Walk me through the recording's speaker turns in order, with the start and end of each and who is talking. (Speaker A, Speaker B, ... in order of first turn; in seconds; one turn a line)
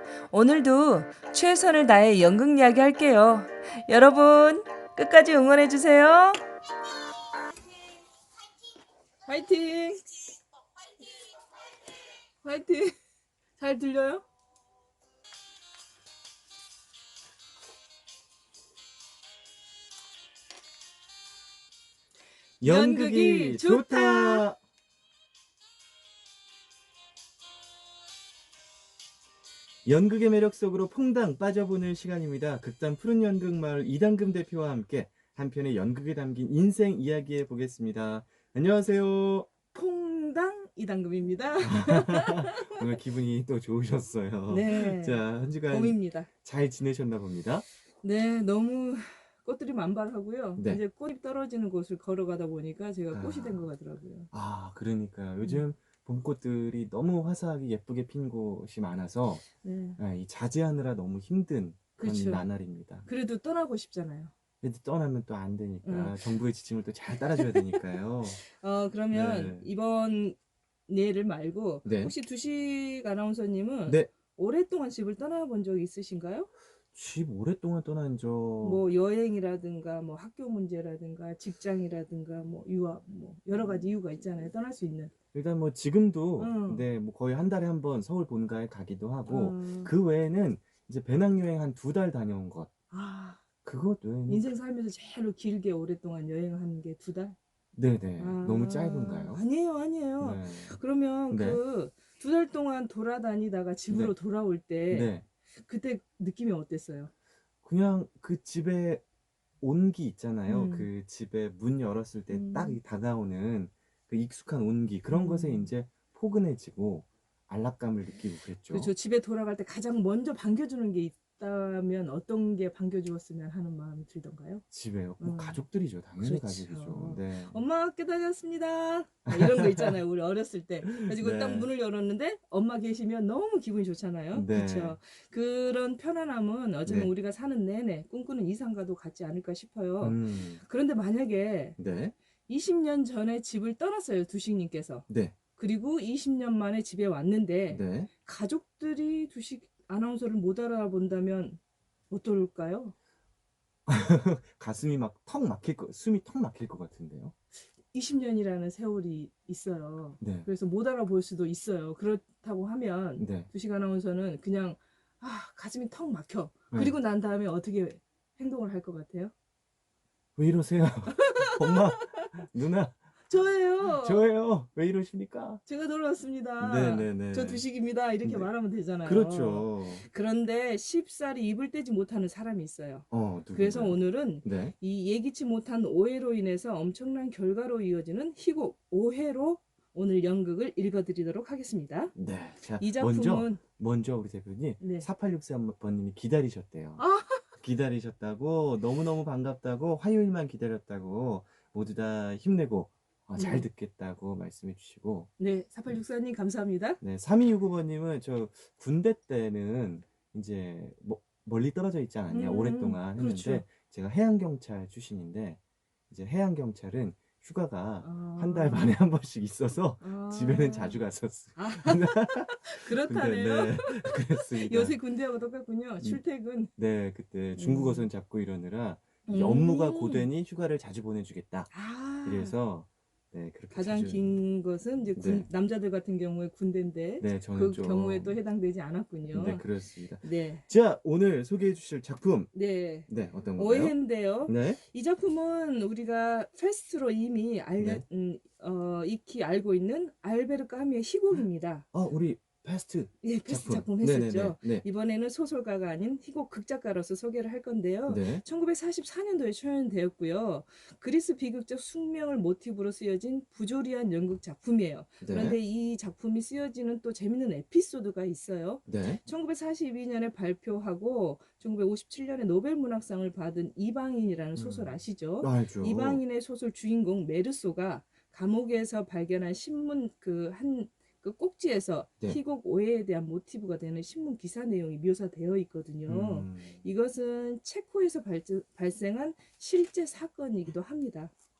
Speaker A: 0.3-6.4
Speaker A: 9.2-10.0
Speaker A: 12.4-12.9
Speaker A: 13.6-14.2
Speaker B: 22.6-24.6
Speaker A: 22.6-24.4
Speaker B: 29.8-39.5
Speaker A: 39.7-42.7
Speaker B: 41.6-47.6
Speaker A: 44.5-46.3
Speaker A: 48.0-54.3
Speaker B: 53.1-53.6
Speaker B: 54.3-59.5
Speaker A: 59.6-60.0
Speaker B: 60.0-63.0
Speaker A: 62.0-62.4
Speaker A: 63.0-64.3
Speaker B: 64.6-68.4
Speaker A: 65.8-66.2
Speaker A: 68.4-70.3
Speaker B: 69.1-69.7
Speaker A: 70.9-76.5
Speaker B: 71.8-72.1
Speaker B: 73.9-74.1
Speaker B: 76.9-78.8
Speaker A: 78.6-85.1
Speaker B: 85.3-92.7
Speaker A: 86.4-86.8
Speaker A: 89.3-89.9
Speaker A: 92.9-93.4
Speaker B: 93.6-94.5
Speaker A: 94.3-97.3
Speaker B: 97.7-99.4
Speaker A: 98.2-105.1
Speaker B: 100.2-100.8
Speaker B: 101.3-101.6
Speaker B: 103.9-104.1
Speaker B: 104.9-105.2
Speaker A: 105.6-107.1
Speaker B: 107.6-109.0
Speaker B: 109.6-118.9
Speaker A: 110.5-110.9
Speaker A: 112.3-112.8
Speaker A: 115.1-115.7
Speaker A: 118.7-124.6
Speaker B: 124.7-127.6
Speaker A: 125.2-125.6
Speaker A: 126.2-141.8
Speaker B: 129.3-130.0
Speaker B: 130.8-131.7
Speaker B: 134.3-135.0
Speaker B: 136.8-137.1
Speaker B: 140.0-140.6
Speaker B: 141.8-142.1
Speaker A: 142.5-151.6
Speaker B: 145.1-145.3
Speaker B: 147.7-148.1
Speaker A: 152.1-152.9
Speaker B: 153.9-157.3
Speaker A: 157.9-169.3
Speaker B: 160.2-160.5
Speaker B: 163.2-163.5
Speaker B: 170.4-173.0
Speaker A: 171.7-172.0
Speaker A: 173.3-174.2
Speaker B: 173.8-175.6
Speaker A: 175.7-192.1
Speaker B: 176.6-177.7
Speaker B: 178.2-178.5
Speaker B: 179.0-180.0
Speaker B: 183.1-184.7
Speaker B: 192.1-197.0
Speaker A: 192.8-193.6
Speaker A: 194.8-195.1
Speaker A: 197.0-197.5
Speaker B: 197.5-205.3
Speaker A: 203.3-203.6
Speaker A: 205.4-207.0
Speaker B: 207.0-224.9
Speaker A: 212.3-213.6
Speaker A: 218.0-218.9
Speaker A: 220.0-221.0
Speaker A: 221.6-226.7
Speaker B: 226.8-234.3
Speaker A: 227.6-228.1
Speaker A: 229.3-230.3
Speaker A: 231.7-232.6
Speaker A: 233.7-239.6
Speaker B: 235.2-235.5
Speaker B: 237.2-238.4
Speaker B: 239.3-242.5
Speaker A: 240.2-240.6
Speaker A: 242.5-251.8
Speaker B: 243.1-244.8
Speaker B: 247.8-248.0
Speaker B: 251.9-254.8
Speaker A: 253.2-291.3
Speaker B: 258.1-258.4
Speaker B: 265.2-265.6
Speaker B: 268.9-269.2
Speaker B: 274.6-276.2
Speaker B: 286.1-286.8